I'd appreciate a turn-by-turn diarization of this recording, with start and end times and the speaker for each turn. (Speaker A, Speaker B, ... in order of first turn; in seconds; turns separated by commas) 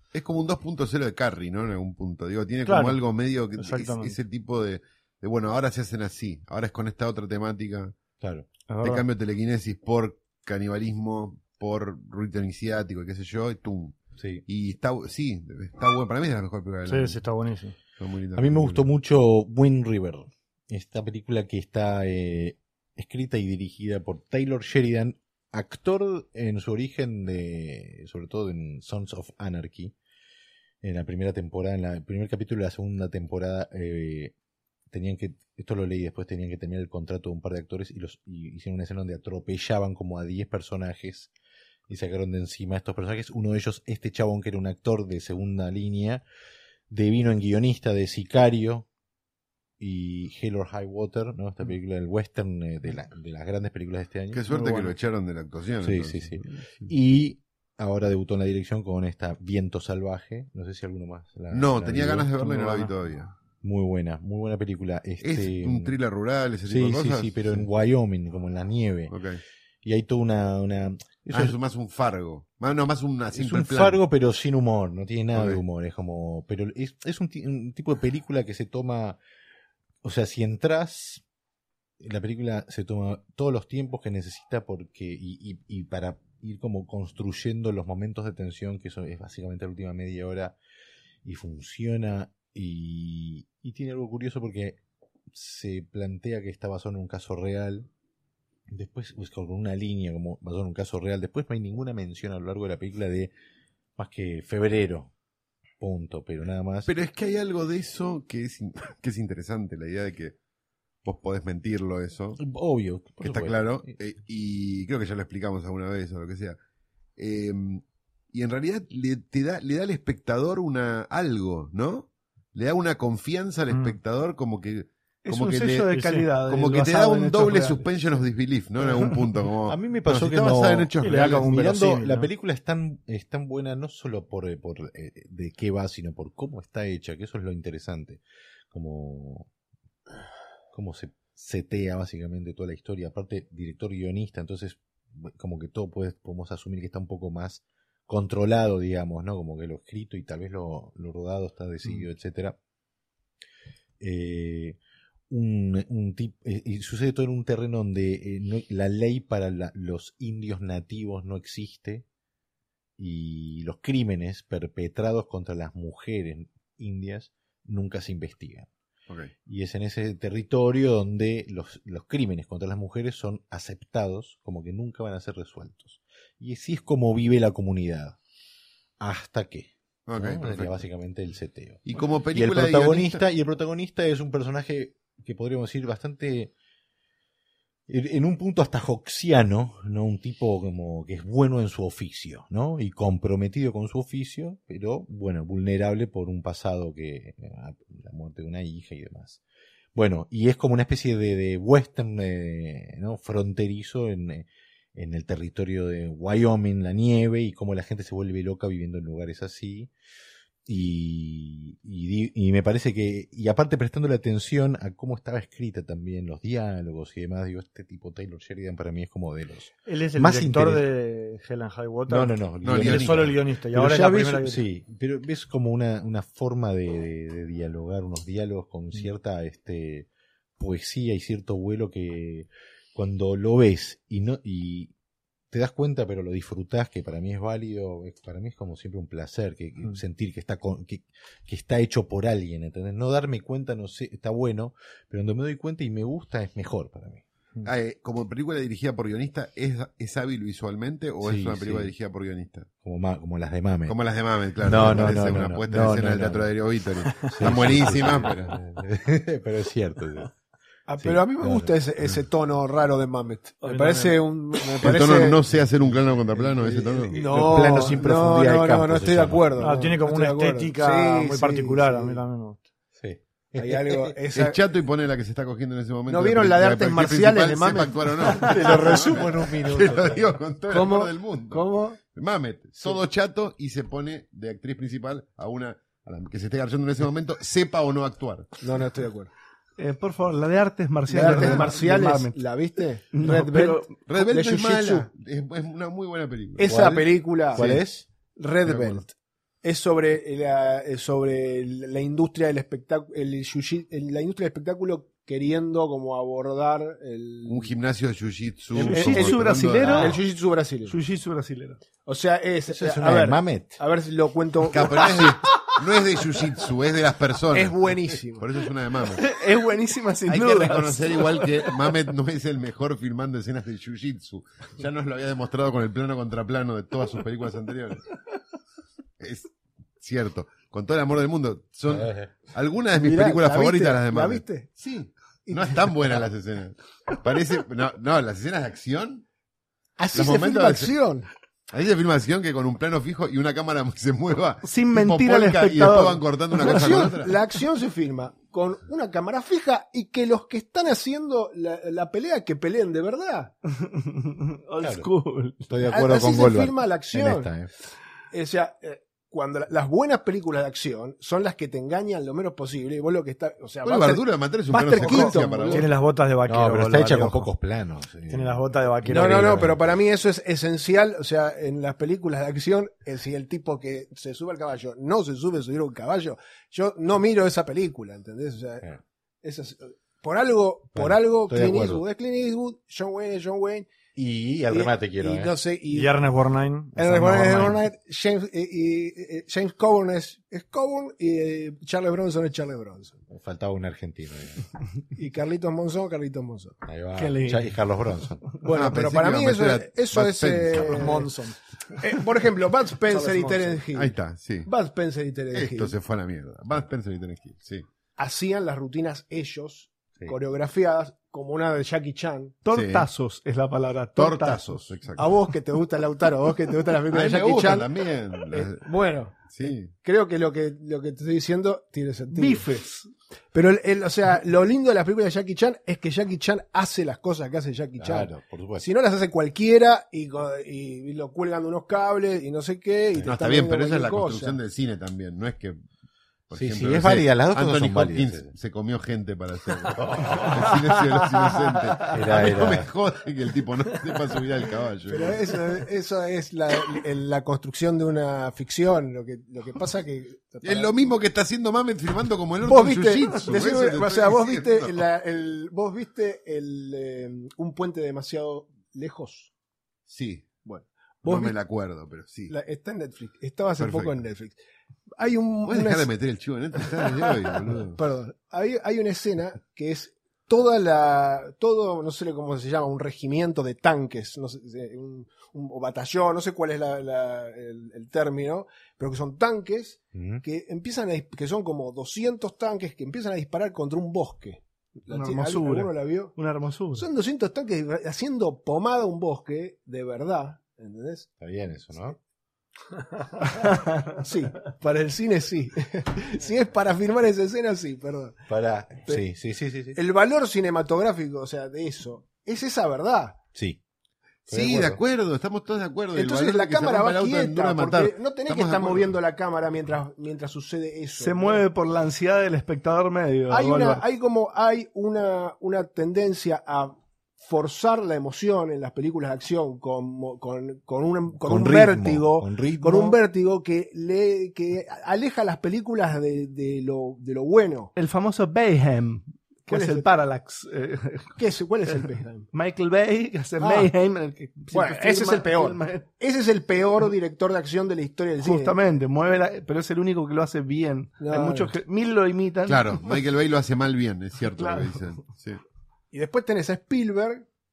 Speaker A: 0.1-8.0, Speaker B: 2.7-3.0, Speaker B: 3.6-4.2, Speaker C: 8.2-8.5, Speaker B: 8.7-9.0, Speaker A: 8.8-17.2, Speaker C: 14.2-14.4, Speaker B: 16.9-17.8, Speaker A: 18.0-18.9, Speaker C: 18.4-29.9, Speaker C: 30.8-34.3, Speaker C: 34.9-41.3, Speaker C: 41.9-46.2, Speaker C: 46.9-48.9, Speaker C: 49.8-54.4, Speaker A: 54.3-56.9, Speaker B: 54.5-54.9, Speaker C: 55.8-62.8, Speaker A: 61.5-63.3, Speaker B: 62.6-62.9, Speaker C: 63.6-66.0, Speaker A: 65.2-67.7, Speaker C: 66.7-69.1, Speaker A: 69.1-69.4, Speaker C: 69.8-71.6, Speaker A: 71.3-74.0, Speaker C: 73.3-79.2, Speaker A: 75.3-75.6, Speaker C: 80.0-81.2, Speaker C: 82.0-90.6, Speaker C: 91.2-94.8, Speaker C: 95.3-97.9, Speaker C: 98.7-103.3, Speaker C: 104.0-105.1, Speaker C: 105.8-106.9, Speaker A: 106.9-110.4, Speaker A: 111.0-112.4, Speaker C: 112.4-113.9, Speaker A: 113.2-116.6, Speaker A: 117.2-131.5, Speaker B: 123.7-124.0, Speaker D: 125.2-128.0, Speaker B: 125.9-126.3, Speaker C: 129.7-139.5, Speaker B: 131.0-132.3, Speaker C: 140.7-152.6, Speaker C: 154.0-154.8, Speaker C: 155.3-162.1, Speaker C: 163.0-168.7, Speaker C: 169.5-178.2, Speaker C: 179.0-186.5, Speaker A: 180.1-180.8, Speaker A: 181.9-183.2, Speaker C: 187.9-199.4, Speaker C: 199.9-209.9, Speaker C: 210.7-220.8, Speaker B: 219.9-224.6, Speaker C: 222.1-230.1, Speaker A: 222.6-223.3, Speaker C: 230.6-234.9, Speaker C: 235.5-247.2, Speaker A: 247.6-252.7, Speaker C: 251.2-251.9, Speaker C: 252.8-254.0, Speaker A: 253.9-258.6, Speaker C: 254.6-256.5, Speaker B: 257.2-257.6, Speaker C: 257.3-260.3, Speaker E: 260.9-265.4, Speaker C: 261.0-261.8, Speaker B: 263.6-264.2, Speaker A: 264.8-267.2, Speaker E: 266.3-272.2, Speaker C: 267.2-269.8, Speaker B: 269.6-272.6, Speaker C: 273.0-274.1, Speaker E: 273.6-274.7, Speaker A: 274.4-288.6, Speaker E: 276.1-278.9, Speaker C: 278.4-280.3, Speaker E: 280.7-282.0, Speaker E: 288.6-289.3, Speaker D: 289.8-292.4, Speaker E: 291.1-295.1, Speaker A: 291.2-291.6, Speaker D: 293.1-293.9, Speaker A: 294.1-296.7, Speaker E: 296.6-297.7, Speaker C: 296.7-298.1, Speaker A: 297.6-297.8, Speaker E: 298.4-299.1, Speaker A: 298.7-299.0, Speaker E: 299.6-307.7, Speaker A: 307.5-310.1, Speaker E: 308.8-311.0, Speaker D: 308.8-310.2, Speaker D: 310.9-311.8, Speaker E: 312.1-315.4, Speaker C: 312.7-313.8, Speaker A: 314.7-317.9, Speaker E: 317.5-318.5, Speaker A: 318.4-319.2, Speaker D: 319.1-321.7, Speaker A: 320.3-328.1, Speaker A: 329.2-339.2, Speaker C: 331.9-332.3, Speaker E: 332.9-334.7, Speaker E: 335.5-335.9, Speaker E: 340.0-341.3, Speaker A: 340.1-340.9, Speaker A: 341.7-347.4, Speaker D: 344.6-346.7, Speaker E: 346.6-353.5, Speaker D: 353.8-355.7, Speaker C: 354.8-355.1, Speaker C: 355.7-357.7, Speaker E: 355.9-357.5, Speaker E: 358.3-365.9, Speaker A: 363.8-365.9, Speaker B: 365.0-367.5, Speaker C: 366.5-369.8, Speaker B: 368.3-369.7, Speaker E: 369.1-378.9, Speaker E: 379.4-383.9, Speaker C: 380.9-382.0, Speaker C: 384.2-385.5, Speaker E: 384.7-386.1, Speaker B: 385.9-387.8, Speaker E: 386.9-393.2, Speaker C: 393.3-394.6, Speaker E: 395.2-396.8, Speaker C: 396.8-398.5, Speaker D: 397.2-397.8, Speaker E: 398.6-401.3, Speaker A: 398.7-401.1, Speaker B: 400.8-401.6, Speaker E: 402.0-404.1, Speaker B: 403.1-403.8, Speaker A: 403.9-404.7, Speaker E: 404.7-405.9, Speaker A: 405.5-407.9, Speaker E: 408.2-412.6, Speaker D: 412.6-414.9, Speaker A: 412.7-413.1, Speaker A: 414.2-415.2, Speaker E: 415.2-417.9, Speaker A: 417.1-418.9, Speaker E: 418.5-422.7, Speaker A: 419.5-419.9, Speaker D: 422.3-423.1, Speaker E: 423.5-434.6, Speaker C: 428.0-428.9, Speaker A: 433.2-435.8, Speaker A: 436.5-445.5, Speaker C: 436.5-438.5, Speaker C: 439.9-440.7, Speaker C: 442.1-442.9, Speaker E: 445.1-451.0, Speaker A: 450.6-455.0, Speaker E: 452.6-459.5, Speaker A: 460.1-460.5, Speaker E: 460.6-461.6, Speaker A: 461.2-462.5, Speaker E: 462.5-464.6, Speaker A: 463.8-464.2, Speaker E: 465.2-466.1, Speaker A: 465.7-468.0, Speaker E: 467.0-486.4, Speaker C: 480.1-480.4, Speaker D: 485.1-487.1, Speaker E: 486.9-491.3, Speaker C: 491.4-492.2, Speaker D: 493.5-494.2, Speaker E: 494.2-498.4, Speaker C: 498.5-500.0, Speaker E: 499.9-503.4, Speaker C: 503.6-503.8, Speaker C: 504.5-505.0, Speaker A: 504.5-509.1, Speaker E: 506.1-511.6, Speaker D: 511.2-514.0, Speaker E: 513.5-527.9, Speaker C: 521.4-523.2, Speaker D: 528.0-531.4, Speaker E: 529.7-530.1, Speaker E: 531.4-532.5, Speaker D: 532.0-536.1, Speaker E: 533.6-533.9, Speaker E: 534.7-538.8, Speaker D: 538.4-543.2, Speaker E: 541.2-541.8, Speaker A: 542.7-545.6, Speaker D: 544.5-545.0, Speaker E: 546.1-547.5